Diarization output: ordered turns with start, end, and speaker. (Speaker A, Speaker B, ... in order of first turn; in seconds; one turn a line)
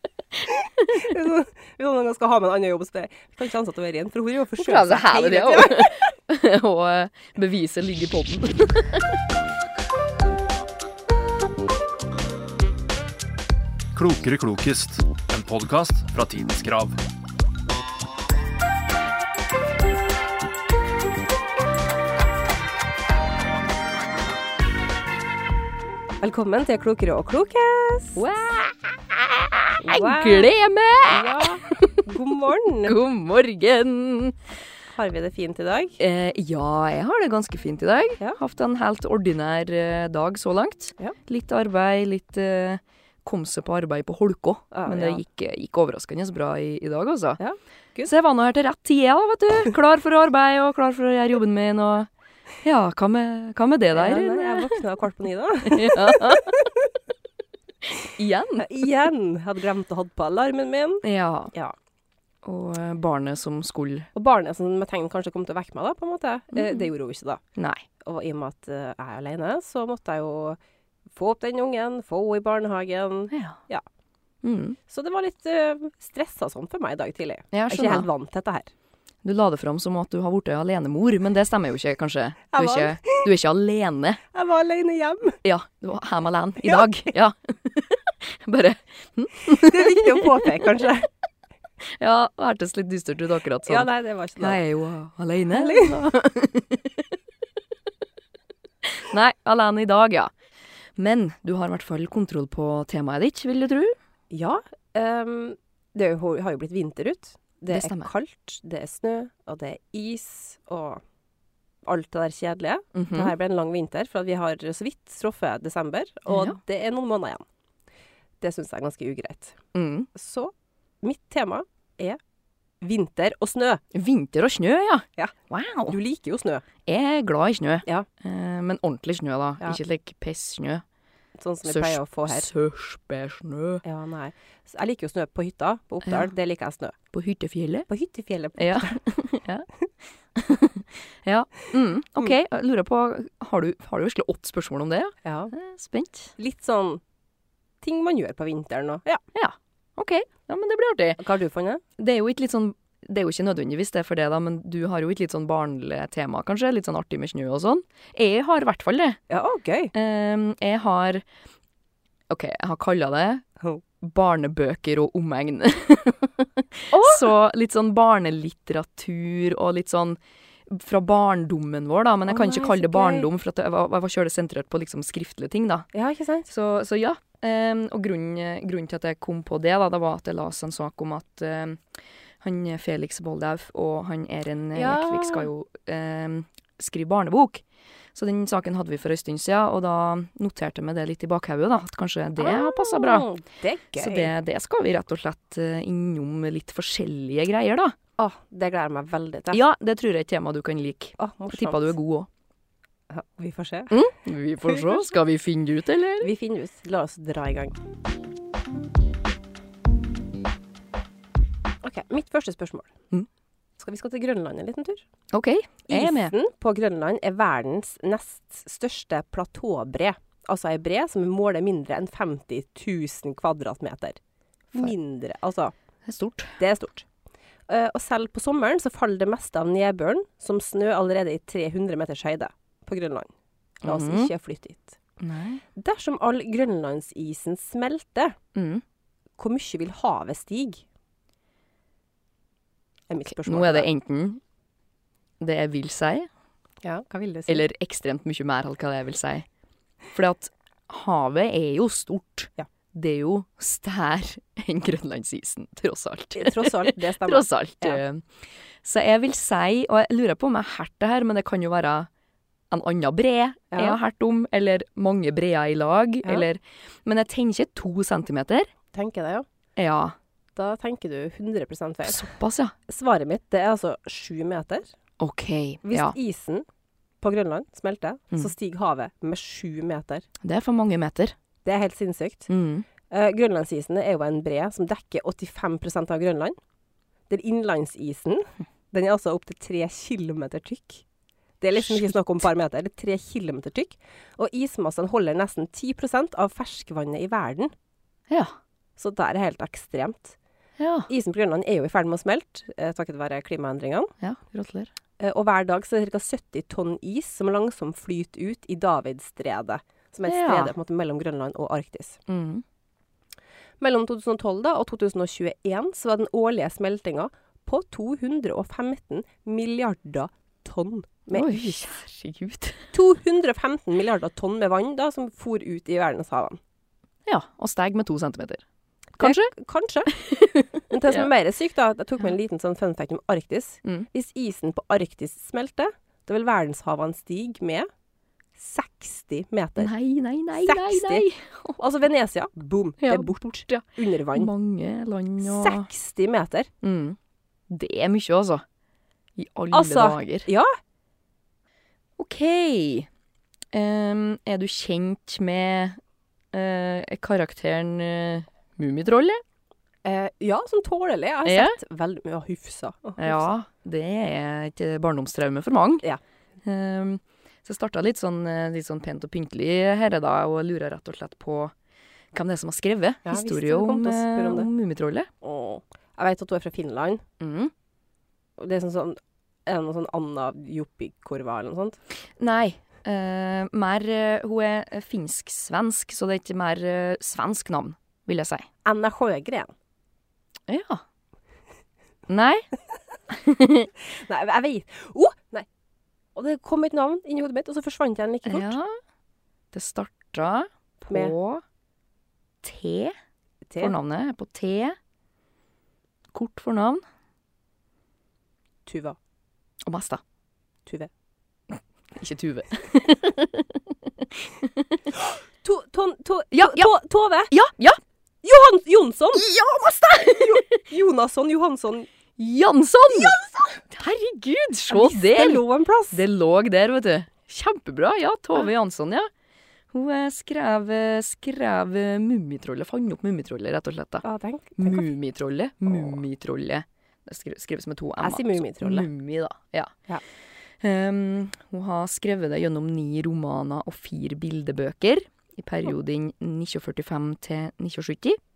Speaker A: 0.5-1.1
Speaker B: 0.9-6.0
Speaker A: 4.6-9.2
Speaker C: 13.9-17.0
Speaker B: 26.2-28.2
Speaker A: 28.2-32.0
Speaker B: 29.8-30.5
Speaker B: 31.1-33.0
Speaker A: 32.8-34.4
Speaker B: 34.9-36.0
Speaker A: 36.0-47.4
Speaker B: 44.7-45.2
Speaker B: 47.4-48.1
Speaker A: 48.0-52.1
Speaker A: 52.6-54.8
Speaker B: 53.9-56.9
Speaker A: 55.6-56.7
Speaker A: 57.8-58.9
Speaker B: 58.6-61.8
Speaker A: 61.0-61.5
Speaker A: 62.4-64.1
Speaker B: 64.2-67.4
Speaker A: 66.5-66.9
Speaker A: 67.6-67.9
Speaker B: 68.0-70.6
Speaker B: 71.1-73.8
Speaker A: 73.3-73.6
Speaker A: 74.4-74.8
Speaker B: 74.9-78.7
Speaker A: 77.5-78.1
Speaker A: 79.2-84.2
Speaker B: 82.5-83.3
Speaker B: 84.3-85.4
Speaker A: 85.4-90.7
Speaker B: 89.5-91.1
Speaker A: 92.0-97.0
Speaker B: 93.7-94.6
Speaker B: 95.5-96.0
Speaker A: 98.9-100.3
Speaker A: 101.0-104.0
Speaker B: 104.3-111.0
Speaker A: 107.7-108.1
Speaker B: 111.8-117.4
Speaker A: 112.9-113.3
Speaker A: 116.3-116.6
Speaker B: 118.4-119.6
Speaker A: 119.7-120.1
Speaker B: 120.1-122.2
Speaker B: 122.8-123.8
Speaker A: 123.9-126.0
Speaker B: 125.9-126.6
Speaker A: 126.9-130.8
Speaker B: 131.4-132.5
Speaker A: 131.7-133.8
Speaker B: 133.8-137.0
Speaker A: 137.1-137.9
Speaker B: 137.9-139.0
Speaker A: 138.6-139.7
Speaker A: 140.3-146.3
Speaker B: 145.2-145.5
Speaker B: 146.4-147.0
Speaker B: 147.8-149.2
Speaker A: 149.3-151.2
Speaker B: 151.2-151.8
Speaker A: 152.0-159.2
Speaker B: 159.3-159.9
Speaker A: 159.9-161.2
Speaker A: 162.3-163.4
Speaker A: 164.0-175.9
Speaker B: 166.9-167.3
Speaker B: 172.3-173.3
Speaker B: 175.9-176.5
Speaker A: 176.5-181.8
Speaker A: 182.4-187.6
Speaker B: 184.8-185.5
Speaker A: 188.2-193.3
Speaker B: 192.4-194.3
Speaker A: 194.0-198.0
Speaker B: 198.2-199.6
Speaker A: 199.5-202.3
Speaker B: 201.2-202.0
Speaker B: 203.1-204.0
Speaker A: 203.9-206.3
Speaker B: 206.2-207.8
Speaker B: 211.8-212.9
Speaker B: 213.8-215.0
Speaker A: 215.3-216.3
Speaker B: 215.9-224.2
Speaker B: 224.7-225.7
Speaker A: 226.1-226.6
Speaker B: 226.6-227.1
Speaker B: 227.7-233.3
Speaker A: 233.8-234.3
Speaker B: 233.8-235.0
Speaker A: 235.2-235.6
Speaker B: 235.8-238.4
Speaker A: 238.6-238.8
Speaker B: 239.4-240.8
Speaker B: 243.1-243.9
Speaker A: 243.3-244.4
Speaker A: 245.4-246.3
Speaker B: 246.8-247.6
Speaker A: 247.5-249.5
Speaker A: 250.1-258.2
Speaker B: 256.4-258.0
Speaker A: 258.8-262.1
Speaker A: 262.7-268.7
Speaker B: 263.7-264.0
Speaker B: 268.9-269.5
Speaker A: 269.8-270.1
Speaker B: 270.6-272.3
Speaker A: 272.0-272.7
Speaker B: 272.9-274.9
Speaker A: 275.2-276.2
Speaker B: 275.8-276.6
Speaker B: 277.2-280.2
Speaker A: 280.4-281.4
Speaker B: 281.6-282.5
Speaker A: 282.5-282.9
Speaker B: 283.1-286.6
Speaker B: 287.3-291.1
Speaker B: 291.6-297.7
Speaker A: 291.9-292.1
Speaker A: 298.3-298.6
Speaker B: 299.0-300.4
Speaker A: 300.8-301.1
Speaker B: 301.1-304.1
Speaker A: 304.2-304.9
Speaker B: 305.2-312.2
Speaker A: 310.3-310.7
Speaker A: 312.3-312.6
Speaker B: 313.8-321.7
Speaker A: 321.3-322.9
Speaker B: 322.9-326.6
Speaker A: 327.3-328.6
Speaker A: 329.2-329.5
Speaker B: 329.2-330.1
Speaker A: 330.1-331.3
Speaker B: 330.9-337.9
Speaker B: 338.6-339.9
Speaker A: 339.8-341.8
Speaker B: 340.6-341.2
Speaker B: 341.8-344.5
Speaker A: 343.0-345.9
Speaker B: 345.4-346.7
Speaker A: 346.8-347.2
Speaker A: 347.7-348.6
Speaker A: 349.4-350.5
Speaker B: 349.7-350.8
Speaker A: 352.2-353.1
Speaker A: 353.7-356.0
Speaker A: 356.5-359.4
Speaker B: 360.0-363.4
Speaker A: 361.4-361.8
Speaker A: 363.2-366.1
Speaker A: 366.6-371.7
Speaker A: 372.3-375.3
Speaker B: 373.2-374.7
Speaker B: 375.4-377.2
Speaker A: 377.4-377.7
Speaker B: 378.6-382.0
Speaker A: 382.4-388.7
Speaker B: 388.8-389.7
Speaker A: 390.7-391.0
Speaker A: 392.3-392.7
Speaker A: 393.3-393.9
Speaker B: 394.1-395.7
Speaker B: 396.4-398.8
Speaker A: 398.4-398.9
Speaker A: 399.7-401.6
Speaker A: 402.6-403.1
Speaker B: 403.7-403.9
Speaker A: 403.8-405.0
Speaker A: 406.3-407.0
Speaker B: 408.9-409.2
Speaker A: 409.9-410.2
Speaker A: 411.7-415.2
Speaker B: 415.6-417.5
Speaker A: 416.5-416.9
Speaker A: 417.5-418.0
Speaker B: 418.4-419.4
Speaker A: 419.3-420.9
Speaker B: 420.3-422.1
Speaker A: 422.4-423.4
Speaker B: 423.1-423.8
Speaker A: 423.9-429.3
Speaker B: 424.9-426.2
Speaker A: 429.9-434.2
Speaker B: 434.2-435.1
Speaker A: 434.8-439.9
Speaker B: 435.9-436.2
Speaker B: 438.2-439.1
Speaker A: 440.8-448.4